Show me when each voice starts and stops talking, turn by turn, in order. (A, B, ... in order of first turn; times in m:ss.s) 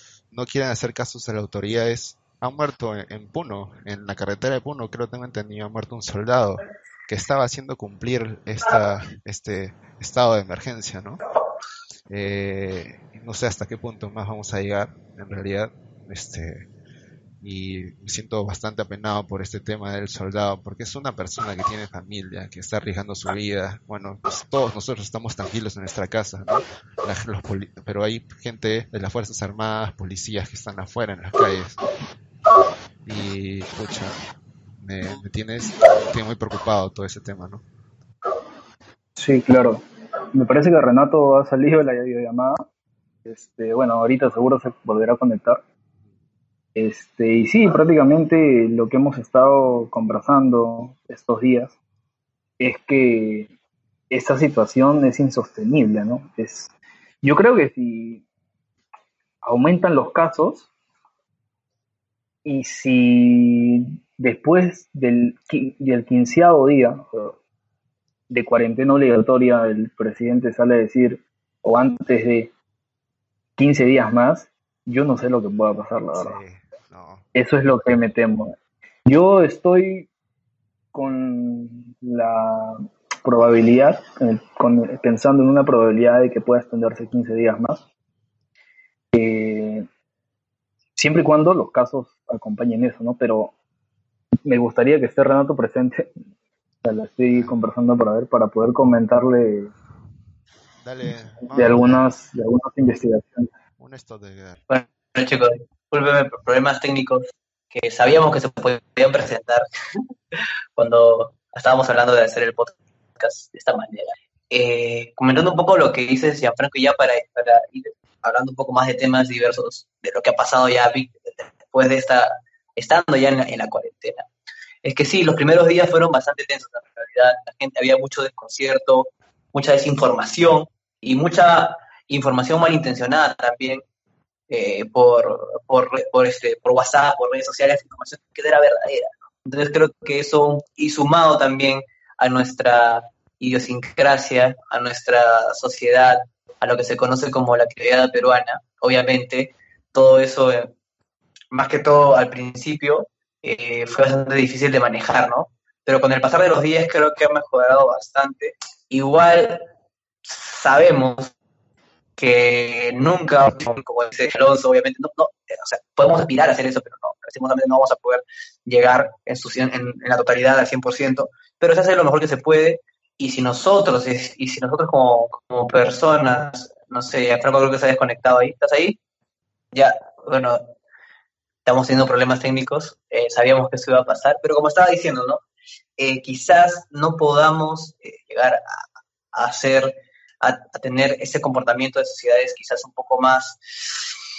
0:00.3-0:11.2 A
0:12.1-0:16.7 A
0:17.4-0:31.8 A
0:33.0-0:34.2 A
0:34.8-0:37.6 A
0:39.2-0:42.6 B
0:43.2-0:45.6 B
0:46.7-0:51.8 B
0:52.6-0:53.5 B
0:54.1-0:56.7 B
0:57.2-0:58.2 B
0:59.4-1:00.7 B
1:02.4-1:07.4 B
1:08.3-1:12.5 B
1:13.6-1:16.4 B
1:16.1-1:17.2 A
1:17.3-1:18.5 B
1:19.0-1:20.1 B
1:20.9-1:27.8 B
1:29.1-1:29.8 B
1:31.0-1:33.5 B
1:34.4-1:36.1 B
1:36.8-1:39.7 B
1:40.8-1:42.0 A
1:41.5-1:43.5 B
1:43.8-1:44.6 A
1:44.7-1:49.7 C
1:50.8-2:04.3 C
2:04.8-2:13.8 C
2:14.5-2:30.7 C
2:31.5-2:39.6 C
2:40.2-2:41.3 C
2:42.2-2:59.0 C
2:59.7-3:00.7 C
3:01.6-3:05.4 C
3:06.0-3:08.8 C
3:09.3-3:14.1 C